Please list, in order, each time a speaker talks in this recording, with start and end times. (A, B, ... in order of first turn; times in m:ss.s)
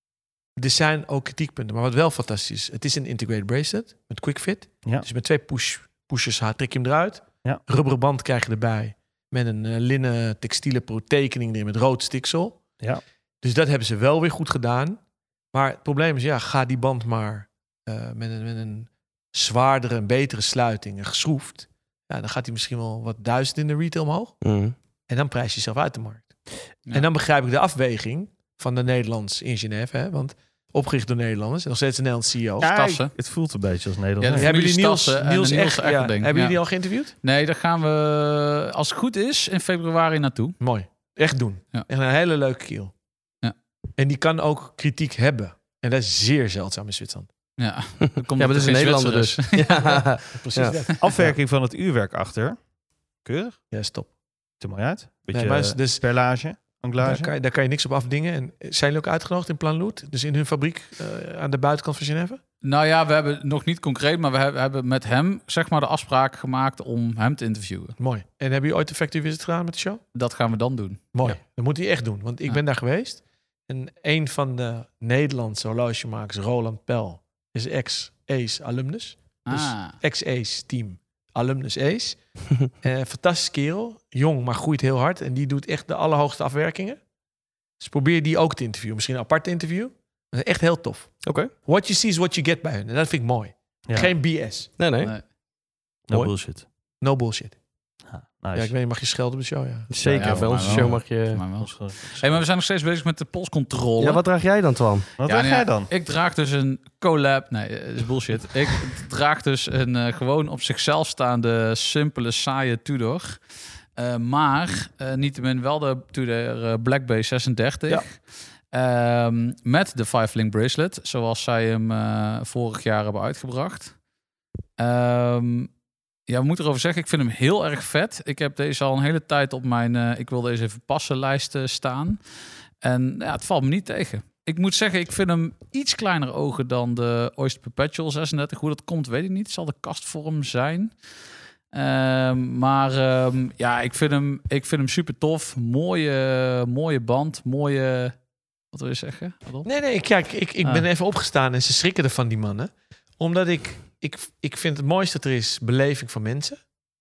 0:00.6-0:12.6 A
0:13.4-0:15.0 A
0:15.5-0:24.4 A
0:24.4-0:24.8 B
0:25.1-0:32.7 A
0:32.6-0:34.5 C
0:32.6-0:33.1 D
0:34.2-0:36.6 D
0:34.3-0:37.1 A
0:37.2-0:40.6 D
0:40.6-0:42.9 A
0:44.0-0:47.3 A
0:47.6-0:50.2 D
0:48.4-0:50.8 B
0:50.3-0:51.4 A
0:51.0-0:52.6 C
0:53.2-0:53.6 C
0:53.7-0:54.1 A
0:54.6-0:57.3 C
0:55.3-0:56.0 A
0:57.0-1:02.4 A
1:02.6-1:08.0 D
1:08.0-1:10.0 A
1:10.1-1:11.0 D
1:11.1-1:22.2 A
1:19.5-1:20.0 D
1:22.7-1:27.0 A
1:27.8-1:34.7 A
1:31.2-1:31.5 B
1:33.9-1:34.1 C
1:34.8-1:35.2 B
1:36.1-1:36.7 C
1:37.0-1:37.6 A
1:38.1-1:38.7 C
1:38.5-1:39.9 A
1:39.9-1:41.4 B
1:40.0-1:41.1 C
1:40.1-1:44.2 D
1:41.6-1:42.4 C
1:44.0-1:45.1 B
1:45.2-1:45.9 C
1:45.2-1:53.4 D
1:54.0-2:04.0 D
2:04.8-2:05.7 D
2:06.3-2:12.2 D
2:12.8-2:20.9 D
2:21.7-2:28.2 D
2:28.7-2:29.7 D
2:29.6-2:36.6 A